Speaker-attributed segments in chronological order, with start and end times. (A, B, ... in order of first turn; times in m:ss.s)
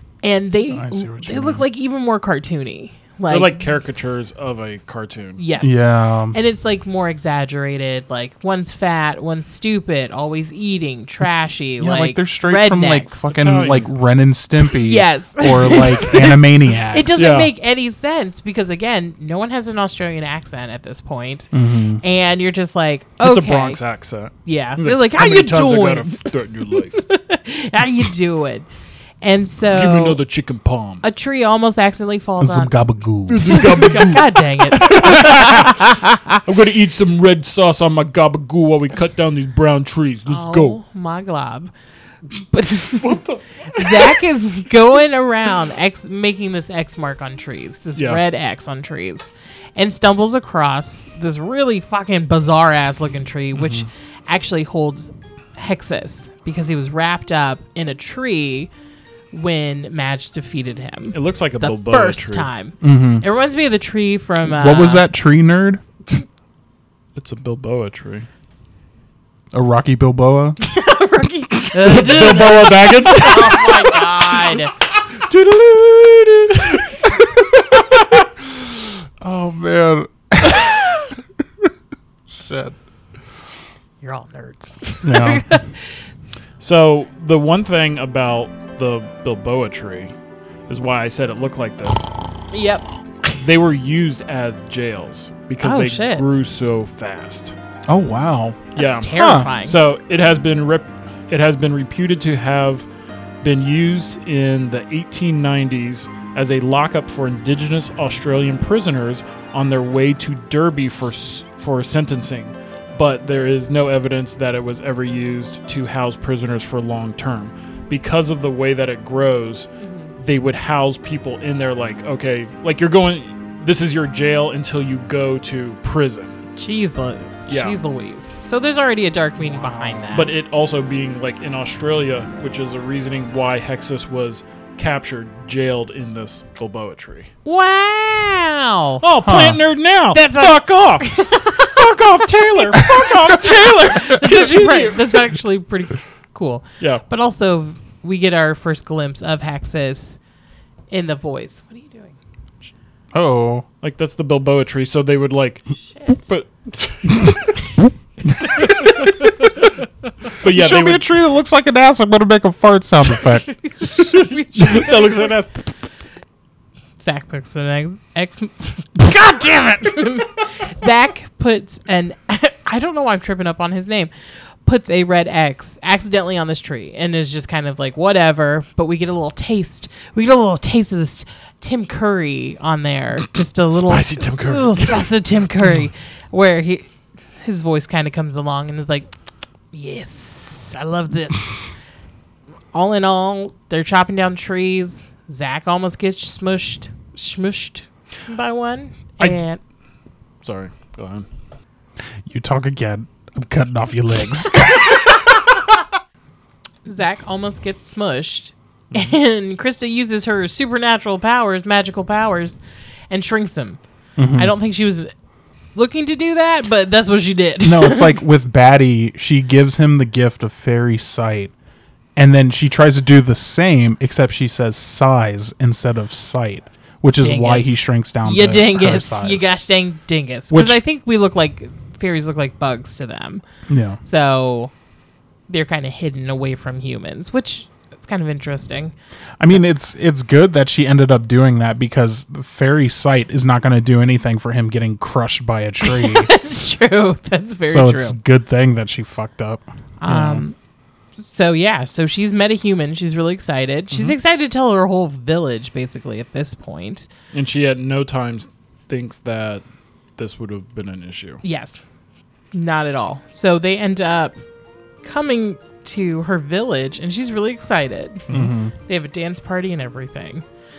0:00.2-0:03.6 A
0:00.7-0:01.6 B
0:03.3-0:05.4 C
0:05.4-0:13.3 A
0:05.6-0:06.4 B
0:11.8-0:17.4 B
0:13.3-0:13.9 C
0:14.6-0:23.8 A
0:17.2-0:17.5 C
0:21.5-0:22.0 B
0:23.2-0:27.0 C
0:24.4-0:28.7 A
0:29.2-0:30.2 A
0:29.6-0:31.0 C
0:31.0-0:32.8 A
0:32.4-0:34.1 B
0:33.3-0:35.8 C
0:33.4-0:36.4 A
0:34.9-0:35.4 B
0:36.4-0:40.8 C
0:40.3-0:41.7 A
0:42.3-0:58.7 A
0:43.0-0:44.2 C
0:48.0-0:48.2 C
0:53.6-0:53.8 C
0:59.3-1:05.0 A
1:01.1-1:02.5 C
1:02.8-1:03.2 B
1:04.4-1:05.8 B
1:07.2-1:08.3 C
1:09.5-1:10.6 B
1:10.6-1:14.7 A
1:11.7-1:17.1 C
1:17.2-1:21.7 B
1:22.3-1:22.7 B
1:24.0-1:26.0 A
1:25.0-1:25.6 B
1:26.6-1:30.1 C
1:30.7-1:32.1 C
1:32.5-1:32.9 A
1:33.3-1:37.5 C
1:35.6-1:36.2 A
1:37.9-1:39.5 B
1:38.7-1:39.8 A
1:38.8-1:42.8 C
1:43.4-2:06.4 C
1:59.8-2:00.1 A
2:06.5-2:10.4 A
2:07.5-2:07.8 C
2:09.7-2:10.1 B
2:10.1-2:17.3 C
2:17.4-2:19.0 A
2:19.0-2:21.1 C
2:19.2-2:19.6 B
2:20.1-2:30.2 A
2:21.6-2:25.2 C
2:22.8-2:24.2 B
2:30.9-2:32.2 A
2:33.1-2:33.6 B
2:33.8-2:37.6 C
2:35.9-2:36.2 A
2:38.5-2:38.9 A
2:40.4-2:41.0 C
2:40.4-2:43.5 B
2:43.4-2:45.3 A
2:44.0-2:45.6 C
2:47.0-2:54.1 A
2:54.6-3:06.9 A
3:03.7-3:05.1 C
3:07.4-3:09.1 A
3:09.7-3:11.6 A
3:12.7-3:19.6 A
3:20.4-3:21.2 C
3:22.2-3:25.2 B
3:26.8-3:33.8 A
3:34.2-3:34.5 B
3:34.4-3:35.1 A
3:35.7-3:38.2 A
3:37.6-3:41.5 B
3:42.2-3:49.5 B
3:47.2-3:53.4 A
3:50.5-3:50.8 B
3:53.7-3:54.0 B
3:54.0-3:54.7 A
3:55.5-3:58.9 A
3:59.4-4:06.3 B
4:05.8-4:08.2 A
4:07.7-4:10.4 B
4:10.0-4:10.6 A
4:11.2-4:17.1 A
4:17.3-4:19.6 C
4:20.2-4:21.4 C
4:21.4-4:21.8 A
4:22.5-4:24.4 A
4:25.0-4:28.3 A
4:28.3-4:28.7 B
4:28.8-4:30.4 A